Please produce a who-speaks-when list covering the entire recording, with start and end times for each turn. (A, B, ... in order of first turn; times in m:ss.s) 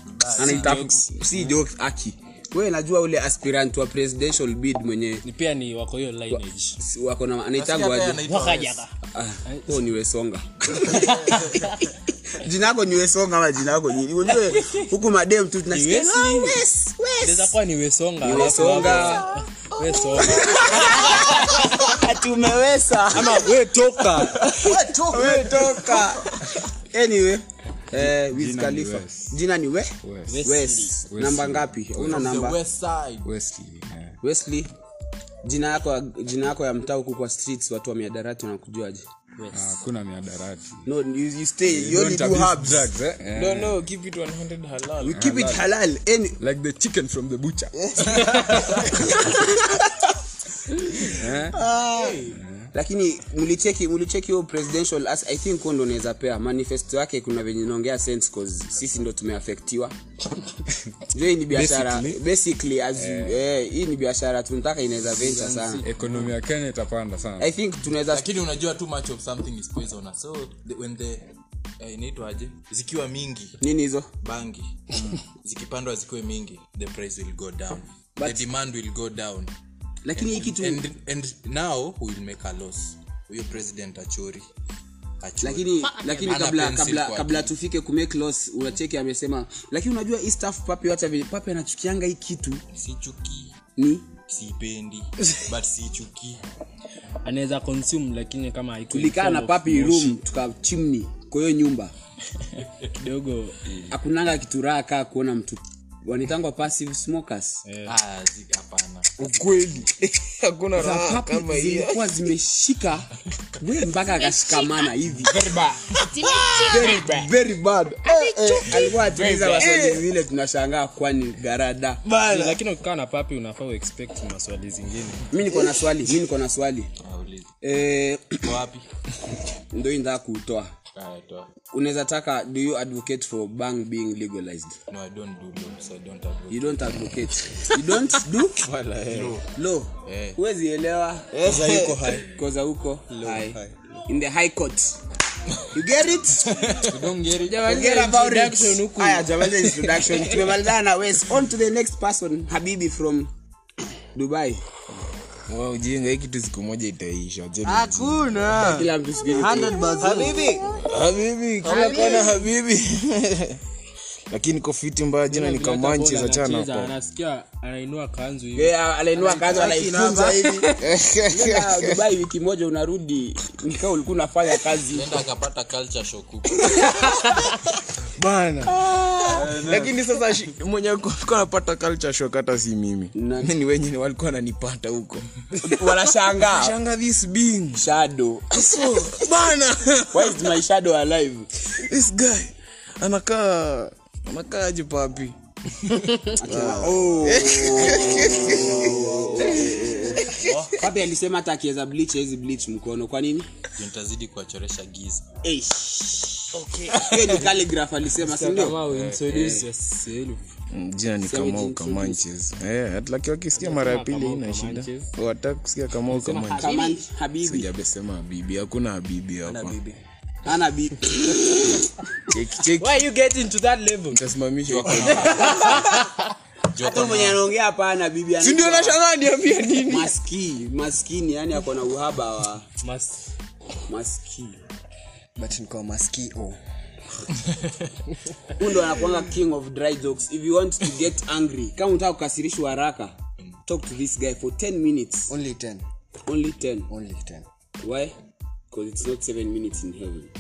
0:00.1-0:00.8 A
0:00.4-0:05.2 B
0:00.4-0:01.0 C
0:05.2-0:06.8 C
0:06.8-0:08.2 B
0:07.6-0:08.8 A
0:08.3-0:08.9 C
0:09.1-0:17.5 B
0:09.4-0:09.8 C
0:10.9-0:11.7 C
0:15.7-0:16.6 C
0:17.2-0:22.0 C
0:18.2-0:19.3 B
0:20.2-0:23.5 B
0:23.1-0:24.6 C
0:24.4-0:26.0 D
0:24.6-0:26.4 B
0:26.9-0:29.9 B
0:27.9-0:29.4 E
0:30.0-0:30.5 E
0:30.3-0:31.0 C
0:30.4-0:32.6 B
0:31.1-0:32.3 E
0:32.0-0:33.3 A
0:33.2-0:34.2 E
0:34.2-0:34.7 B
0:35.4-0:39.0 B
0:39.4-0:39.8 C
0:39.5-0:40.8 E
0:40.9-0:42.9 B
0:41.7-0:43.8 E
0:43.3-0:45.2 F
0:45.0-0:46.4 B
0:45.1-0:45.6 E
0:46.4-0:48.9 E
0:48.0-0:48.2 B
0:48.1-0:48.9 A
0:48.8-0:49.9 B
0:51.1-0:51.6 E
0:51.2-0:51.6 F
0:51.6-0:59.9 B
0:51.9-0:52.4 D
1:01.1-1:05.9 B
1:01.5-1:02.2 F
1:03.0-1:03.4 E
1:05.2-1:05.8 D
1:05.8-1:07.5 E
1:06.0-1:06.3 A
1:07.4-1:08.3 B
1:08.1-1:11.3 A
1:11.8-1:13.6 A
1:13.6-1:14.1 B
1:14.2-1:19.5 A
1:18.2-1:18.4 B
1:20.1-1:20.8 B
1:20.2-1:24.5 A
1:25.2-1:27.5 A
1:25.4-1:32.6 B
1:25.8-1:26.4 C
1:32.7-1:33.5 A
1:33.8-1:34.1 B
1:34.3-1:36.4 A
1:37.2-1:40.2 C
1:38.9-1:41.9 B
1:43.0-1:43.8 C
1:43.9-1:47.6 B
1:47.6-1:47.9 C
1:47.8-1:49.1 A
1:49.2-1:52.2 F
1:50.8-1:55.8 B
1:55.3-1:57.2 C
1:56.3-1:56.6 F
1:56.5-2:02.0 B
1:58.1-1:59.6 C
1:58.1-2:00.0 F
2:02.0-2:02.6 F
2:02.2-2:05.3 C
2:05.3-2:06.9 B
2:07.0-2:07.5 A
2:07.6-2:08.5 B
2:08.4-2:08.9 A
2:09.7-2:10.7 B
2:11.0-2:11.5 A
2:11.7-2:14.8 B
2:14.9-2:16.9 A
2:16.5-2:18.7 B
2:18.6-2:19.4 F
2:19.1-2:19.4 A
2:19.5-2:21.6 B
2:20.0-2:20.4 A
2:21.3-2:22.3 F
2:21.5-2:22.2 D
2:22.3-2:25.0 B
2:23.2-2:23.6 D
2:25.7-2:26.7 B
2:26.4-2:27.0 A
2:26.9-2:27.6 E
2:27.4-2:30.5 C
2:27.6-2:33.3 B
2:34.2-2:34.6 B
2:35.5-2:38.9 F
2:37.6-2:38.8 D
2:38.5-2:40.0 B
2:39.3-2:40.8 D
2:40.0-2:40.4 C
2:40.8-2:43.6 F
2:41.6-2:42.3 D
2:41.6-2:42.5 C
2:44.3-2:46.9 F
2:45.3-2:49.7 C
2:48.6-2:50.7 B
2:49.5-2:49.9 F
2:49.6-2:50.2 D
2:50.4-2:50.8 C
2:50.8-2:52.0 F
2:51.3-2:55.2 B
2:54.9-2:56.9 A
2:56.6-2:57.1 B
2:58.2-3:07.8 F
2:58.8-2:59.6 B
2:59.3-2:59.9 E
3:03.2-3:03.5 B
3:05.6-3:06.8 B
3:07.8-3:09.2 B
3:08.5-3:10.5 F
3:10.1-3:11.5 B
3:11.7-3:20.7 F
3:16.4-3:20.2 B
3:20.4-3:20.7 D
3:20.8-3:23.5 B
3:23.8-3:25.2 A
3:25.4-3:29.5 B
3:26.6-3:27.4 C
3:28.2-3:30.4 C
3:30.7-3:36.9 F
3:31.2-3:32.2 B
3:33.6-3:35.1 C
3:36.1-3:37.0 C
3:36.5-3:37.7 B
3:37.4-3:39.8 F
3:39.4-3:40.0 D
3:40.4-3:41.9 B
3:42.3-3:42.9 F
3:42.8-3:44.2 C
3:44.1-3:45.6 F
3:44.7-3:45.9 A
3:45.1-3:46.2 C
3:45.3-3:46.0 B
3:46.7-3:47.4 A
3:46.8-3:49.0 B
3:48.4-3:50.1 F
3:49.9-3:52.6 B
3:52.8-3:53.2 C
3:53.9-3:54.6 B
3:55.4-3:56.6 D
3:58.6-4:03.2 B
4:03.7-4:05.3 B
4:05.3-4:05.8 D
4:06.3-4:06.9 B
4:06.9-4:07.5 D
4:07.8-4:08.1 B
4:08.7-4:10.3 B